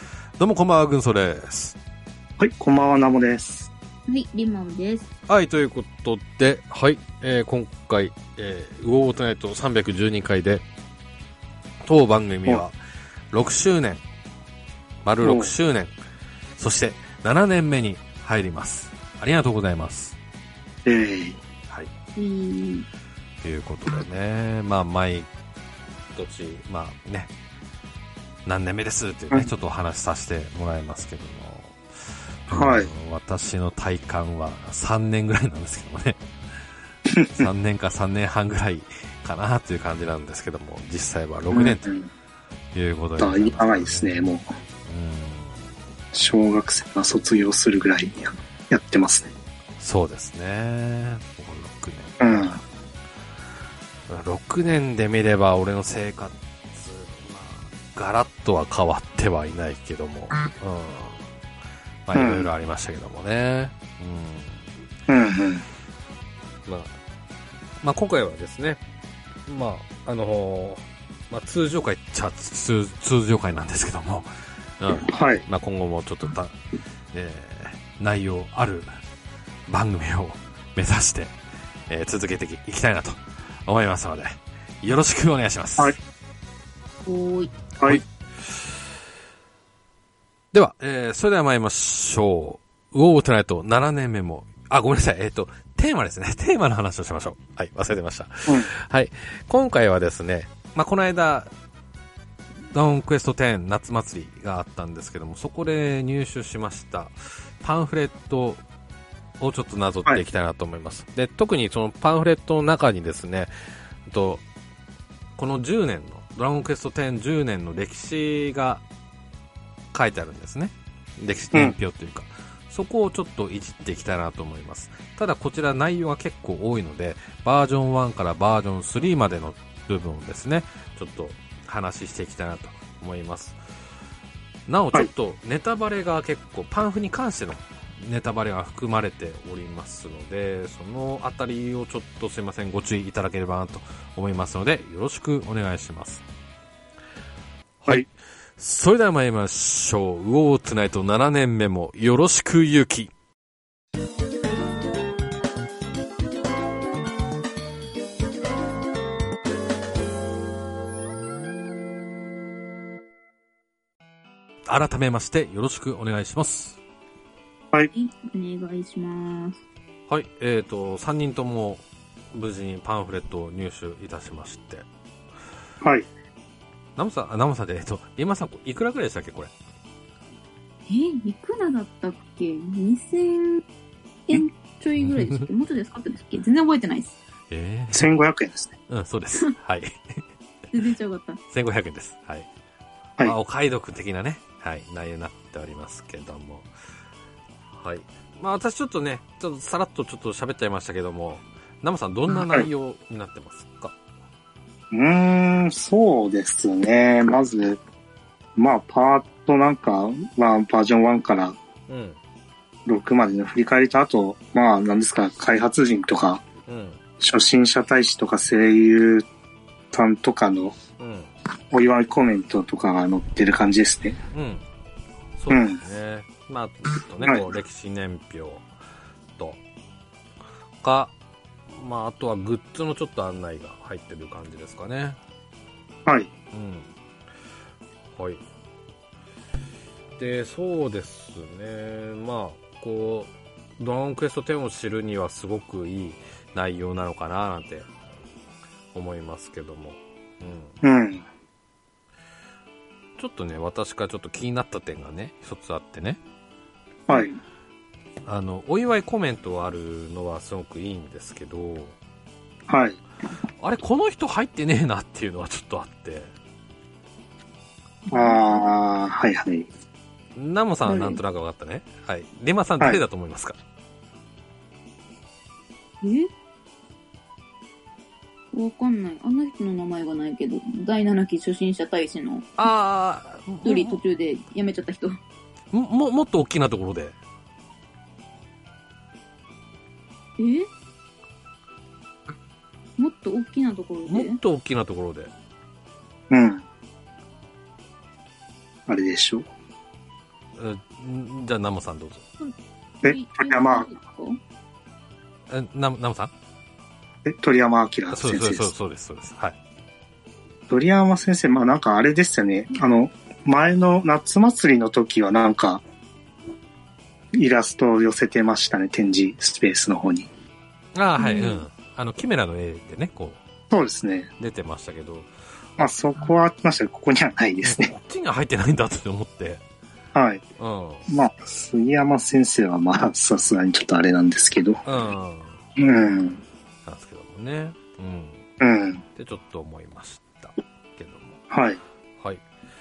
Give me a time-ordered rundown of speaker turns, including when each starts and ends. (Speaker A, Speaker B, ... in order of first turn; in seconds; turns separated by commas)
Speaker A: 0.4-1.8, Speaker B: 2.4-3.7, Speaker C: 4.1-5.1, Speaker A: 5.3-10.6, Speaker A: 11.8-12.8, Speaker A: 13.3-14.0, Speaker A: 15.0-15.9, Speaker B: 15.2-15.5, Speaker A: 16.6-20.2, Speaker B: 20.9-21.4, Speaker C: 22.2-22.9, Speaker A: 23.4-25.3, Speaker A: 26.1-27.3, Speaker A: 28.5-36.2, Speaker B: 32.5-32.9, Speaker B: 37.2-37.4, Speaker A: 37.3-41.9, Speaker B: 41.5-42.1, Speaker A: 42.8-44.3, Speaker B: 43.2-44.5, Speaker A: 44.9-45.5, Speaker B: 46.1-49.3, Speaker A: 49.8-52.6, Speaker B: 52.2-52.6, Speaker A: 54.1-61.2, Speaker A: 62.1-64.6, Speaker B: 62.1-62.5, Speaker B: 65.1-65.7, Speaker A: 66.7-66.9, Speaker A: 67.8-68.8, Speaker A: 69.5-76.6, Speaker B: 74.9-75.5, Speaker A: 77.1-78.9, Speaker A: 79.7-81.3, Speaker A: 81.9-86.0, Speaker C: 87.0-87.5, Speaker A: 90.5-101.5, Speaker A: 102.7-108.6, Speaker A: 109.4-113.5, Speaker A: 114.1-114.4, Speaker A: 115.4-118.8, Speaker A: 119.9-133.6, Speaker A: 134.7-146.2, Speaker A: 147.8-153.1, Speaker A: 164.7-166.8, Speaker C: 167.9-169.6, Speaker A: 170.1-174.8, Speaker B: 175.8-176.1, Speaker A: 177.0-179.5, Speaker C: 180.9-183.6, Speaker C: 184.3-187.1, Speaker A: 185.0-185.5, Speaker A: 187.5-188.1, Speaker B: 187.9-188.7, Speaker A: 188.9-190.2, Speaker C: 190.7-191.4, Speaker A: 191.5-192.5, Speaker A: 193.2-196.7, Speaker A: 197.8-204.0, Speaker B: 202.3-202.7, Speaker B: 204.9-207.8, Speaker B: 208.6-211.6, Speaker A: 211.9-212.2, Speaker B: 212.9-216.4, Speaker A: 216.7-217.0, Speaker B: 217.2-219.3, Speaker B: 219.9-220.8, Speaker A: 221.0-221.3, Speaker B: 221.7-224.2, Speaker A: 224.3-224.6, Speaker A: 225.4-228.7, Speaker B: 225.5-225.8, Speaker A: 230.8-231.1, Speaker A: 231.7-235.2, Speaker A: 236.5-236.9, Speaker A: 238.1-238.4, Speaker A: 240.2-247.9, Speaker A: 248.9-250.8, Speaker B: 250.8-251.2, Speaker A: 253.2-256.2, Speaker A: 258.3-262.0, Speaker B: 262.7-263.0, Speaker A: 263.6-266.3, Speaker C: 268.1-268.5, Speaker B: 268.1-269.7, Speaker A: 270.4-273.6, Speaker C: 270.9-271.2, Speaker C: 276.0-276.3, Speaker C: 278.5-282.7, Speaker A: 282.6-284.0, Speaker C: 283.6-285.2, Speaker A: 285.7-287.2, Speaker C: 290.4-290.7, Speaker C: 293.0-294.4, Speaker A: 294.1-295.3, Speaker B: 296.3-296.6, Speaker B: 298.9-299.5, Speaker A: 300.6-302.2, Speaker C: 302.4-304.4, Speaker B: 303.0-303.9, Speaker A: 305.5-306.3, Speaker B: 307.2-308.7, Speaker A: 308.1-309.6, Speaker B: 310.7-315.8, Speaker B: 317.3-320.3, Speaker A: 320.9-323.4, Speaker C: 321.2-321.6, Speaker B: 323.7-324.3, Speaker A: 324.4-325.9, Speaker B: 325.8-327.9, Speaker A: 327.6-329.6, Speaker B: 330.1-330.4, Speaker A: 330.6-331.1, Speaker B: 331.1-334.8, Speaker A: 334.9-335.6, Speaker B: 335.8-336.4, Speaker A: 336.9-338.4, Speaker B: 338.6-339.0, Speaker A: 339.2-341.4, Speaker B: 341.5-341.8, Speaker A: 342.2-342.4